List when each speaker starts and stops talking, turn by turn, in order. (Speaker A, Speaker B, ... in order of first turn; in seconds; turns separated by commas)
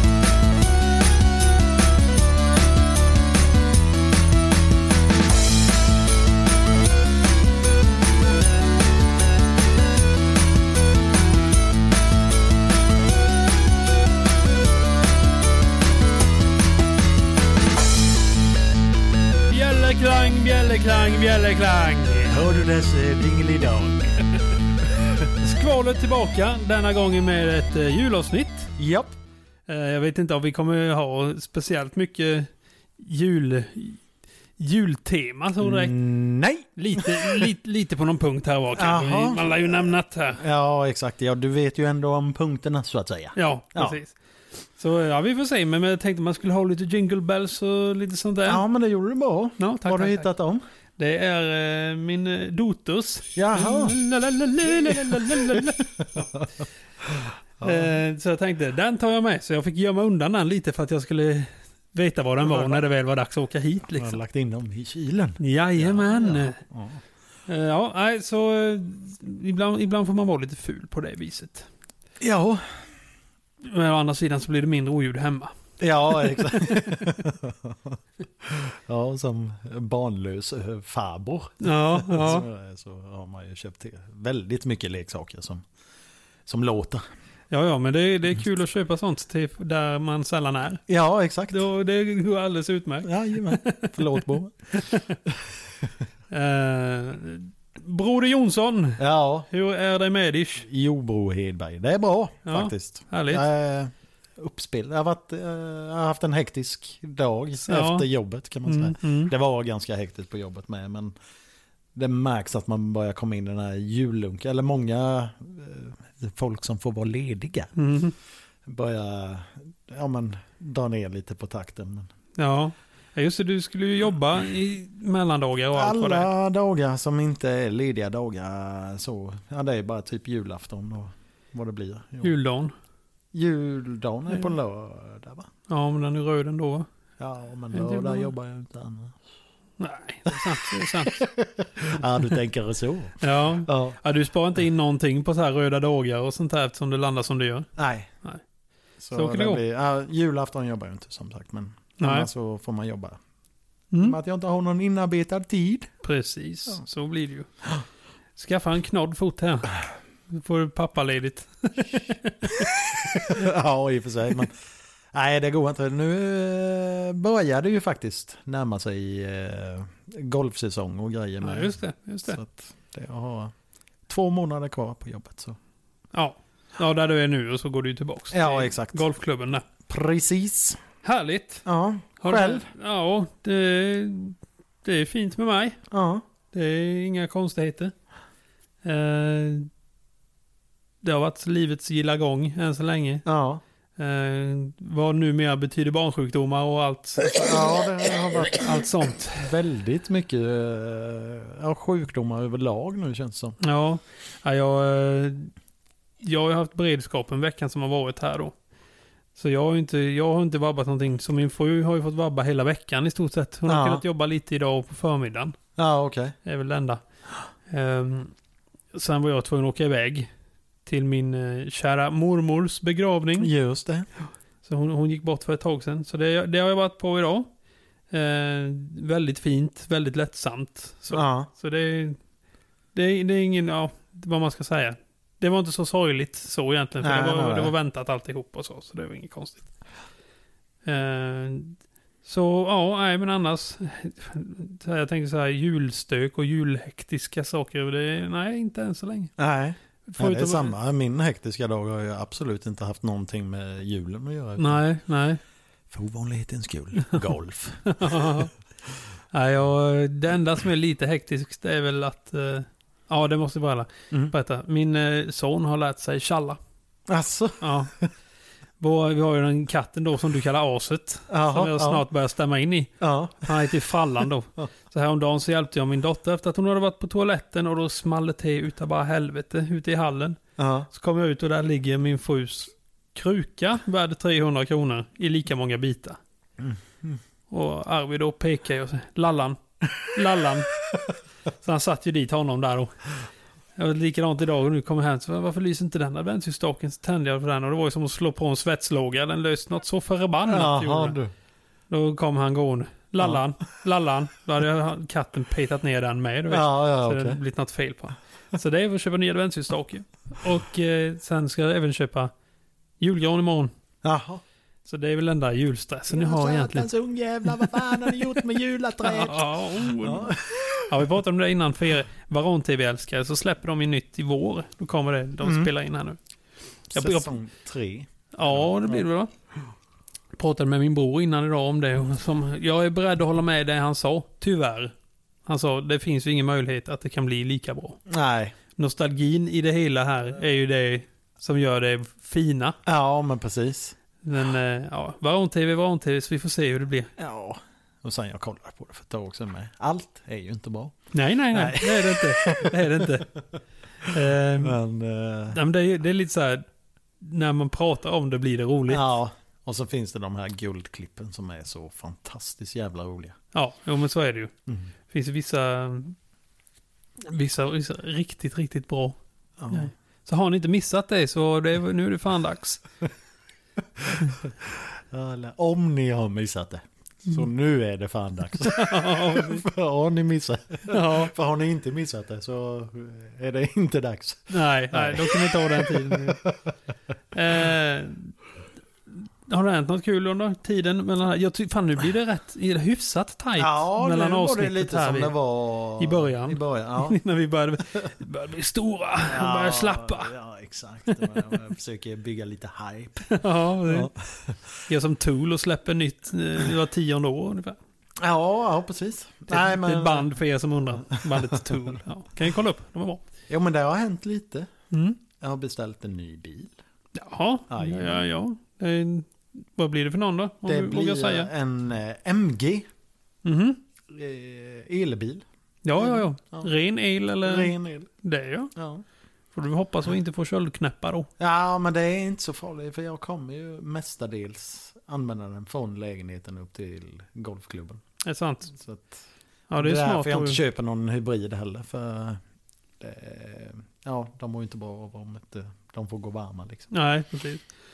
Speaker A: 19.5-22.4, Speaker B: 22.3-24.1, Speaker B: 25.0-25.3, Speaker A: 25.4-28.7, Speaker B: 28.8-29.1, Speaker A: 29.7-34.0, Speaker A: 34.6-36.0, Speaker B: 35.6-37.5, Speaker A: 36.8-40.4, Speaker B: 38.7-44.0, Speaker A: 43.3-48.6, Speaker B: 48.5-50.6, Speaker A: 49.6-50.3, Speaker A: 51.0-56.3, Speaker B: 53.4-53.9, Speaker B: 54.6-58.0, Speaker A: 57.6-64.2, Speaker B: 62.4-62.8, Speaker B: 63.9-67.0, Speaker A: 65.4-66.6, Speaker A: 67.5-71.7, Speaker B: 72.2-72.8, Speaker A: 73.6-75.5, Speaker B: 75.8-85.7, Speaker A: 76.1-77.2, Speaker A: 81.6-82.5, Speaker B: 86.5-87.0, Speaker A: 87.5-90.8, Speaker B: 90.9-91.6, Speaker A: 91.5-95.2, Speaker B: 93.0-94.5, Speaker B: 95.3-95.9, Speaker A: 96.3-100.7, Speaker B: 99.0-99.5, Speaker B: 100.6-111.1, Speaker A: 102.5-103.4, Speaker A: 107.7-108.1, Speaker A: 108.7-109.3, Speaker B: 111.9-117.7, Speaker A: 117.7-118.2, Speaker B: 118.7-122.1, Speaker A: 122.4-126.3, Speaker B: 125.7-132.3, Speaker A: 132.2-132.7, Speaker B: 133.3-135.5, Speaker A: 135.7-136.9, Speaker B: 137.2-139.2, Speaker A: 137.7-138.3, Speaker A: 139.8-141.3, Speaker B: 140.3-144.0, Speaker A: 143.2-147.7, Speaker B: 147.8-148.1, Speaker B: 149.0-153.2, Speaker A: 149.1-149.6, Speaker A: 152.0-152.3, Speaker A: 153.9-154.2, Speaker B: 154.0-155.9, Speaker A: 156.0-157.5, Speaker A: 158.3-159.8, Speaker A: 160.3-163.4, Speaker B: 162.6-164.6, Speaker B: 165.1-173.5, Speaker A: 171.4-172.4, Speaker B: 174.1-175.6, Speaker A: 176.1-179.7, Speaker B: 178.3-179.0, Speaker B: 179.8-180.8, Speaker A: 181.0-181.6, Speaker B: 181.6-182.7, Speaker A: 182.2-185.8, Speaker B: 185.9-186.2, Speaker A: 186.5-187.9, Speaker A: 188.8-189.7, Speaker A: 191.0-193.2, Speaker B: 193.2-193.6, Speaker A: 194.0-197.8, Speaker B: 197.3-203.6, Speaker A: 198.5-199.5, Speaker A: 203.6-205.5, Speaker A: 206.2-208.5, Speaker A: 209.3-215.6, Speaker B: 213.7-214.0, Speaker B: 215.8-216.3, Speaker A: 216.4-217.0, Speaker A: 217.7-218.3, Speaker A: 218.9-220.3, Speaker A: 220.8-223.5, Speaker B: 223.4-224.1, Speaker A: 224.6-227.5, Speaker A: 228.1-232.2, Speaker B: 231.1-231.5, Speaker A: 232.9-239.7, Speaker B: 237.0-237.7, Speaker A: 240.8-249.3, Speaker B: 249.4-254.8, Speaker A: 250.0-250.7, Speaker A: 254.6-255.4, Speaker B: 255.9-258.4, Speaker A: 257.8-258.5, Speaker A: 259.3-266.6, Speaker B: 267.1-268.1, Speaker A: 267.6-267.9, Speaker A: 268.8-280.4, Speaker B: 271.3-272.0, Speaker B: 273.0-273.7, Speaker B: 280.6-280.9, Speaker A: 280.9-286.2, Speaker B: 286.6-287.2, Speaker A: 287.5-290.7, Speaker A: 291.6-293.1, Speaker A: 293.8-301.2, Speaker B: 300.5-301.3, Speaker A: 301.9-312.3, Speaker B: 306.5-307.4, Speaker A: 313.0-313.7, Speaker B: 314.0-314.4, Speaker A: 314.8-316.9, Speaker B: 316.1-321.0, Speaker A: 317.4-318.2, Speaker A: 319.0-326.2, Speaker B: 325.4-325.7, Speaker B: 326.9-329.0, Speaker A: 326.9-327.4, Speaker A: 328.3-329.3, Speaker A: 330.4-334.9, Speaker A: 335.4-338.0, Speaker B: 338.1-338.5, Speaker A: 338.8-342.8, Speaker B: 342.9-343.9, Speaker A: 344.2-347.1, Speaker B: 347.2-350.9, Speaker A: 351.1-353.3, Speaker B: 351.5-353.2, Speaker B: 354.0-355.6, Speaker A: 354.1-354.8, Speaker A: 355.5-356.6, Speaker A: 357.2-359.1, Speaker B: 358.9-363.4, Speaker A: 363.5-364.5, Speaker A: 365.1-366.2, Speaker A: 367.2-369.2, Speaker B: 369.6-369.9, Speaker A: 369.7-372.8, Speaker B: 374.0-386.7, Speaker A: 378.6-379.6, Speaker A: 380.9-381.3, Speaker A: 384.5-386.4, Speaker A: 387.3-388.3, Speaker A: 389.5-395.3, Speaker B: 393.6-397.2, Speaker A: 396.0-400.3, Speaker B: 399.3-404.7, Speaker A: 401.1-401.6, Speaker A: 403.3-404.1, Speaker A: 404.9-407.8, Speaker B: 408.2-410.3, Speaker A: 409.5-413.2, Speaker B: 411.1-411.7, Speaker B: 413.5-414.7, Speaker A: 414.9-415.2, Speaker B: 415.4-416.8, Speaker A: 417.1-421.5, Speaker B: 417.7-418.2, Speaker B: 420.6-422.9, Speaker A: 423.4-423.8, Speaker B: 424.1-425.4, Speaker A: 425.8-428.7, Speaker B: 425.9-426.7, Speaker B: 427.4-428.1, Speaker B: 428.7-429.0, Speaker A: 429.5-431.3, Speaker B: 431.4-438.0, Speaker A: 438.2-438.7, Speaker B: 438.7-439.2, Speaker A: 439.7-440.6, Speaker B: 439.8-442.4, Speaker B: 443.0-446.9, Speaker A: 446.9-447.7